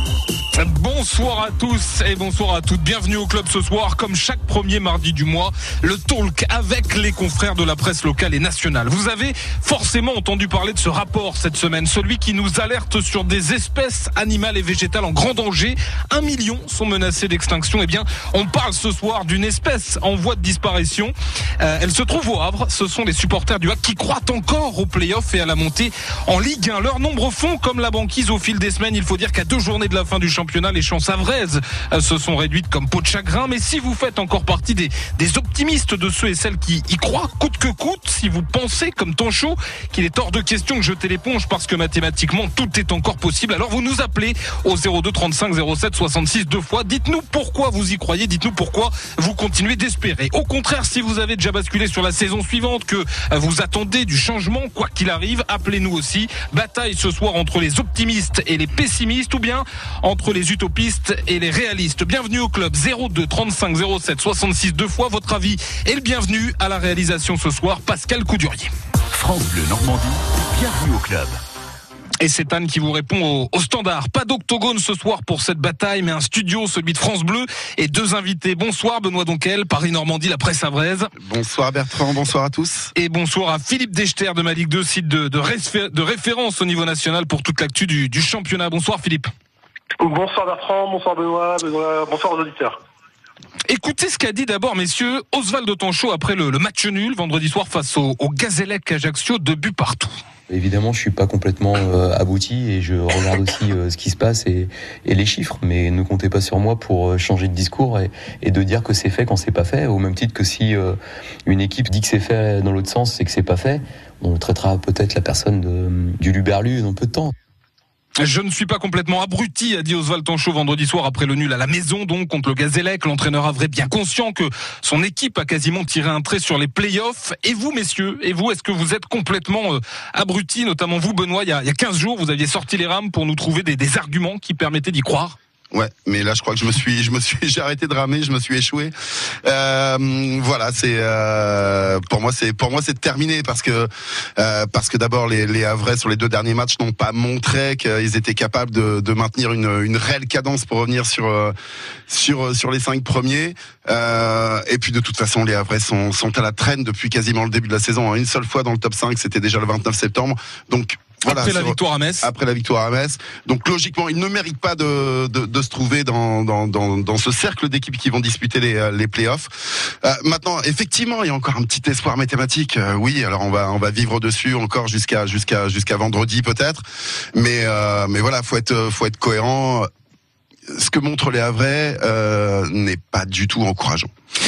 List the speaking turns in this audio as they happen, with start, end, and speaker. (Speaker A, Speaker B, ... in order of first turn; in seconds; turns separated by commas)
Speaker A: 0.6-68.7, Speaker B: 69.1-71.4, Speaker A: 72.2-81.1, Speaker C: 81.2-82.9, Speaker A: 83.0-89.3, Speaker D: 90.0-92.8, Speaker A: 93.7-100.1, Speaker E: 100.5-117.3, Speaker A: 118.2-135.4, Speaker C: 135.7-138.9, Speaker C: 139.4-151.5, Speaker C: 152.1-176.8, Speaker A: 161.3-162.3, Speaker C: 177.3-179.9, Speaker C: 180.7-184.1